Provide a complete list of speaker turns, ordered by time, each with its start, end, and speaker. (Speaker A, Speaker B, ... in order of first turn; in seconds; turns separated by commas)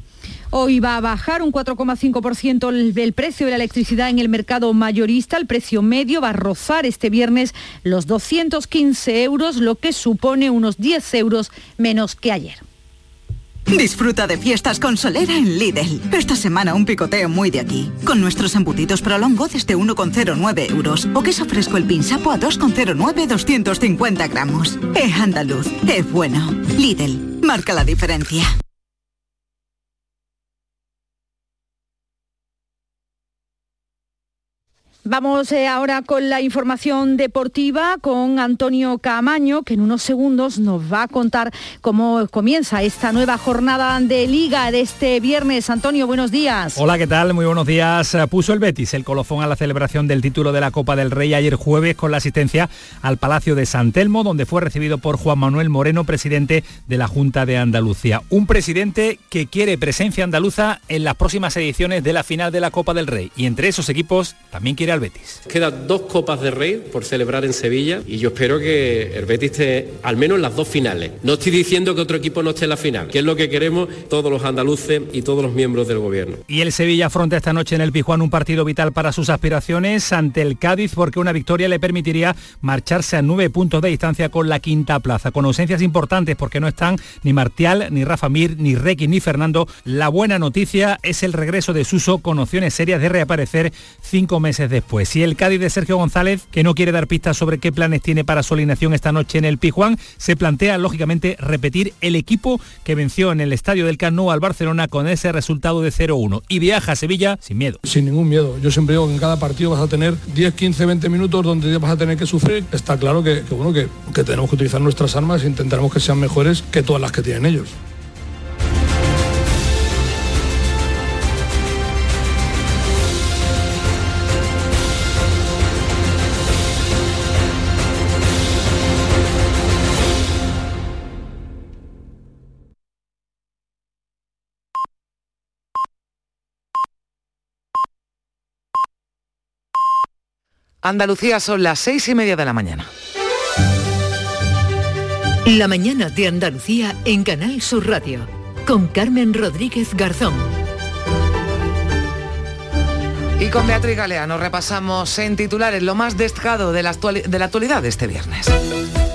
Speaker A: 0.5-12.6, Speaker B: 13.7-28.5, Speaker A: 35.0-46.8, Speaker C: 46.8-65.4, Speaker D: 65.5-76.4, Speaker C: 76.5-107.8, Speaker E: 107.8-117.7, Speaker F: 140.8-142.9, Speaker G: 145.4-150.5, Speaker F: 153.4-158.5